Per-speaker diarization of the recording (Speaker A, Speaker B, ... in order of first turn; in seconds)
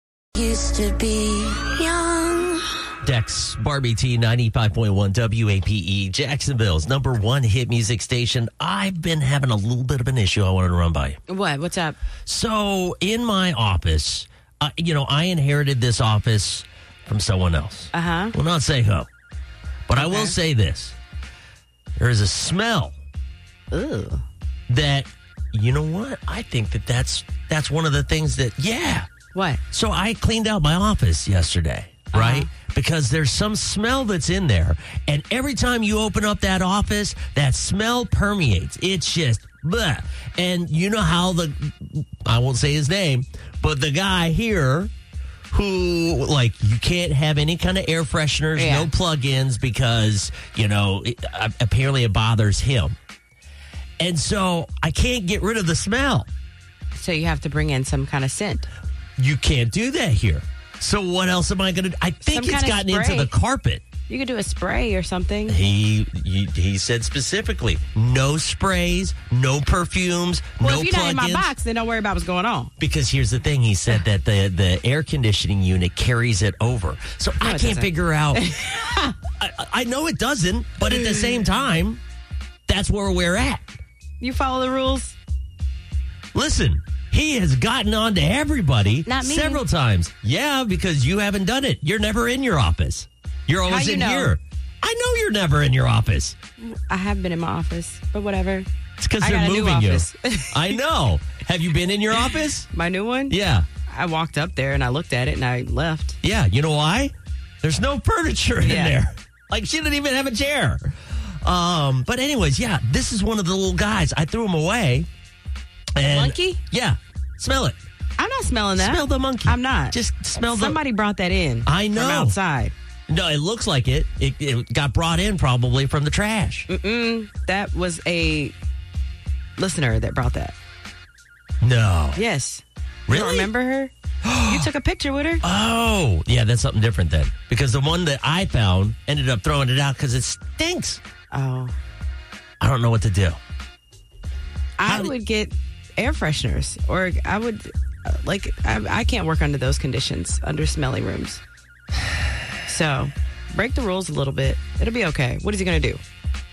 Speaker A: 0.3-2.7
Speaker B: 3.0-11.2, 12.2-19.1, 19.9-20.9, 22.0-22.9, 24.7-29.1, 29.7-44.9, 45.5-52.9, 54.0-56.3, 59.2-63.8, 65.5-71.5, 72.8-78.5, 79.4-82.0, 82.7-83.7, 86.3-96.3, 99.0-102.7, 103.3-103.7, 106.2-115.1, 116.0-117.8, 118.7-120.8, 121.7-122.4, 123.1-126.7, 131.6-132.2, 133.1-133.5, 134.2-134.7, 135.4-141.0, 142.6-143.4, 144.8-145.1
Speaker C: 11.3-12.0, 17.9-18.3, 19.9-20.4, 23.7-24.2, 29.3-29.6, 32.1-32.5, 48.5-48.9, 56.9-58.7, 62.2-63.3, 64.1-65.6, 70.6-72.7, 77.4-79.1, 80.9-81.4, 84.2-85.2, 89.0-89.6, 93.6-94.3, 96.6-98.7, 99.2-100.8, 102.2-106.2, 108.6-109.0, 116.1-116.6, 118.2-122.7, 126.7-128.5, 129.6-130.5, 132.1-133.9, 134.4-135.4, 141.3-141.7, 144.8-151.4, 152.7-156.0